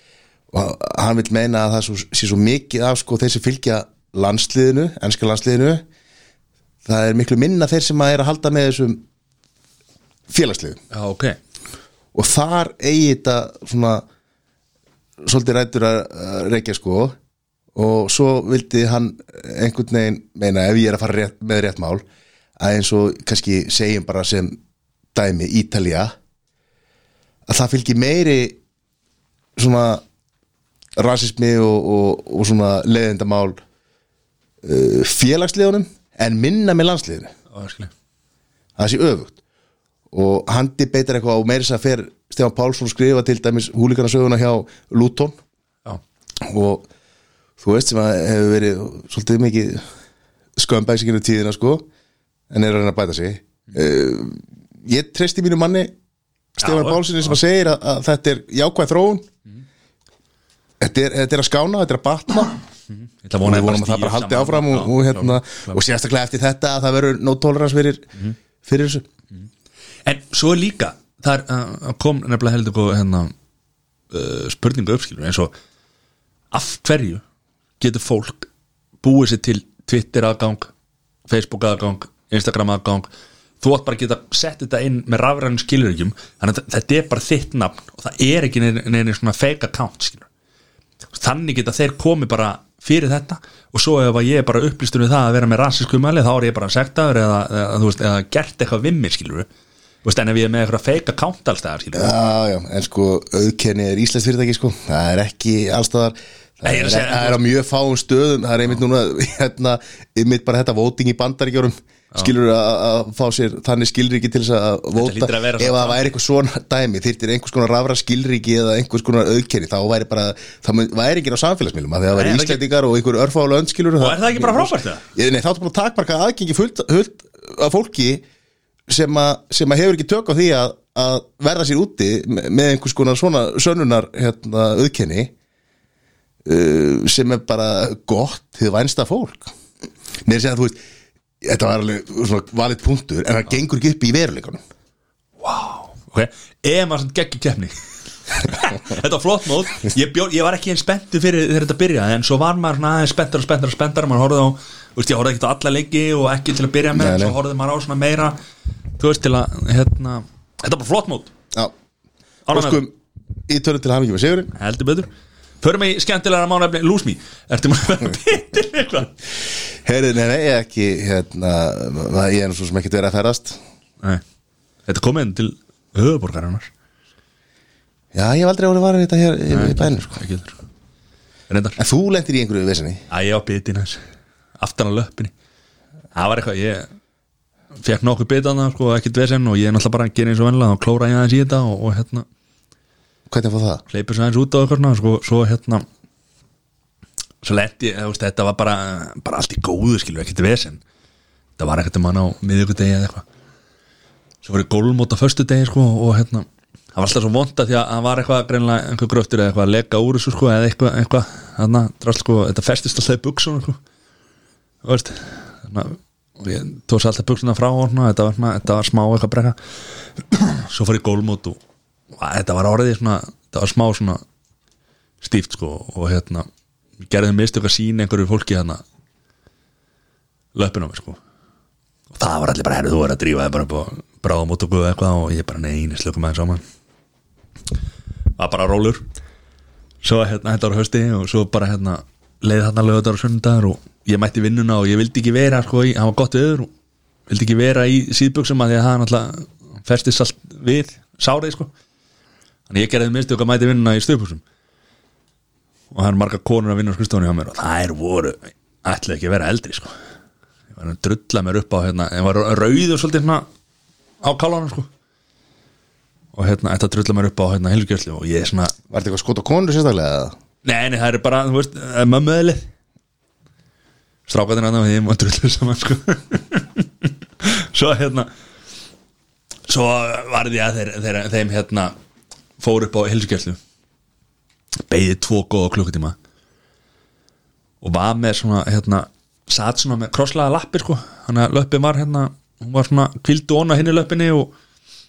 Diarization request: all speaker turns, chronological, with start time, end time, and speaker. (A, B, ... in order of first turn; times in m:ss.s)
0:00.5-0:05.8 A
0:06.8-0:09.0 A
0:10.3-0:10.8 A
0:10.9-0:11.4 B
0:12.1-0:14.0 A
0:15.2-0:17.2 A
0:17.7-0:22.0 A
0:22.6-0:24.6 A
0:25.1-0:26.1 A
0:27.4-0:28.6 A
0:29.6-0:30.0 A
0:31.0-0:33.6 A
0:34.6-0:37.3 A
0:37.5-0:37.9 B
0:38.8-0:39.4 A
0:40.1-0:45.4 A
0:46.4-0:46.9 A
0:47.6-0:49.8 A
0:50.6-0:51.8 A
0:52.5-0:55.9 A
0:56.6-0:59.2 A
0:56.6-0:57.3 B
1:00.8-1:02.6 A
1:03.2-1:05.8 B
1:03.4-1:08.1 A
1:08.6-1:09.0 A
1:10.0-1:13.3 B
1:14.1-1:15.5 B
1:16.5-1:17.2 B
1:17.8-1:18.5 B
1:19.0-1:20.7 B
1:21.3-1:23.1 B
1:23.6-1:30.3 B
1:31.1-1:39.5 B
1:40.0-1:42.2 B
1:41.9-2:08.2 A
1:46.6-1:47.4 B
1:55.0-1:56.0 B
2:02.1-2:02.6 B
2:04.0-2:05.0 B
2:08.9-2:15.3 A
2:16.4-2:19.5 A
2:20.2-2:20.8 A
2:21.4-2:24.6 A
2:25.4-2:27.8 B
2:28.3-2:38.4 B
2:36.9-2:37.4 A
2:39.0-2:41.3 B
2:42.5-2:42.8 B
2:42.5-2:42.9 A
2:43.5-2:44.5 A
2:44.5-2:45.1 B
2:45.6-2:49.2 B
2:49.8-2:53.6 A
2:54.8-2:56.7 B
2:58.1-3:00.2 A
2:59.5-3:00.6 B
3:01.5-3:01.8 B
3:01.8-3:03.0 A
3:03.1-3:04.0 B
3:04.6-3:05.3 B
3:06.1-3:06.9 B
3:07.8-3:12.2 B
3:13.3-3:13.8 A
3:13.9-3:15.8 B
3:17.4-3:20.8 B
3:21.6-3:23.2 B
3:24.4-3:33.8 B
3:34.8-3:39.6 B
3:40.3-3:41.6 B
3:42.2-3:44.2 B
3:45.2-3:46.5 B
3:47.0-3:48.8 B
3:50.5-3:51.2 B
3:52.1-3:56.6 B
3:58.4-3:59.0 B
4:00.0-4:06.7 B
4:07.3-4:11.7 B
4:12.7-4:14.4 B
4:15.9-4:19.9 B
4:20.7-4:23.5 B
4:24.2-4:24.9 B
4:26.3-4:28.7 B
4:28.9-4:30.3 A
4:30.6-4:32.7 B
4:34.3-4:38.3 B
4:39.7-4:41.9 B
4:42.6-4:43.6 B
4:44.9-4:46.2 B
4:47.8-4:54.5 B